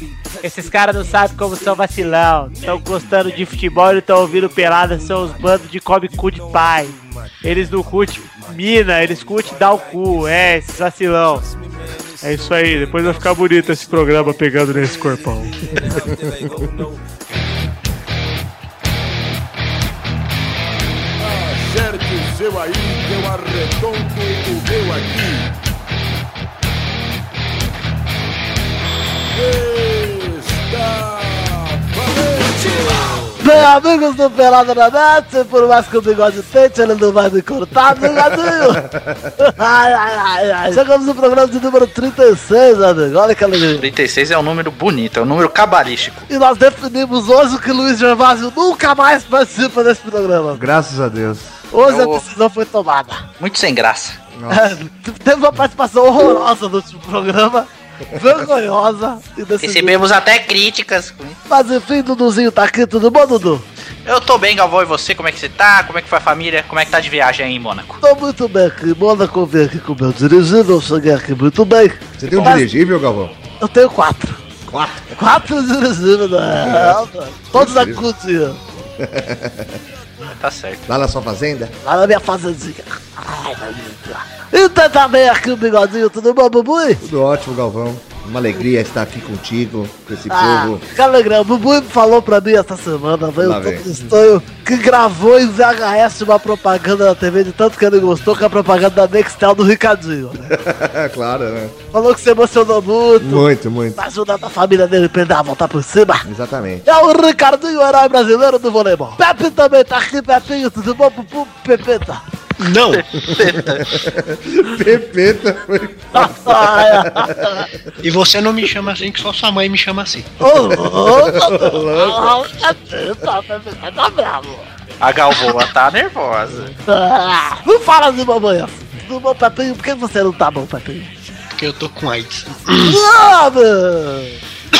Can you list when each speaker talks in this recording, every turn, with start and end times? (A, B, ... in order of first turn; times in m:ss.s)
0:00.4-0:11.5 A
0:12.2-0:15.5 A
0:15.8-0:16.4 B
0:21.2-0:25.5 C
0:29.4-0:33.4 C
0:33.4-0:38.8 D
0:38.4-0:39.3 B
0:39.4-0:43.9 D
0:43.7-0:46.3 E
0:46.3-0:50.6 D
0:50.5-0:51.6 B
0:51.7-0:53.2 D
0:51.8-0:52.2 E
0:53.4-0:54.2 E
0:54.3-0:54.8 B
0:54.5-0:59.9 D
0:59.6-1:01.4 E
1:01.5-1:03.6 D
1:04.0-1:08.0 E
1:08.0-1:12.6 D
1:12.2-1:13.3 B
1:12.3-1:12.6 E
1:13.6-1:14.4 D
1:14.7-1:15.2 B
1:15.1-1:18.6 D
1:16.6-1:17.0 B
1:17.5-1:18.0 B
1:19.0-1:19.8 B
1:20.3-1:20.8 E
1:20.9-1:21.7 B
1:21.8-1:27.0 D
1:27.0-1:30.8 B
1:30.3-1:40.6 D
1:33.4-1:34.1 B
1:40.5-1:41.8 B
1:41.9-1:43.4 D
1:43.2-1:44.0 B
1:44.0-1:46.2 D
1:46.2-1:46.8 B
1:46.9-1:52.2 D
1:52.6-1:53.0 F
1:53.0-1:53.9 E
1:53.2-1:57.7 B
1:56.1-1:57.7 D
1:58.0-2:00.3 F
2:00.4-2:04.6 D
2:00.7-2:02.4 B
2:05.0-2:06.7 E
2:06.9-2:11.1 D
2:11.5-2:13.0 F
2:12.8-2:14.4 D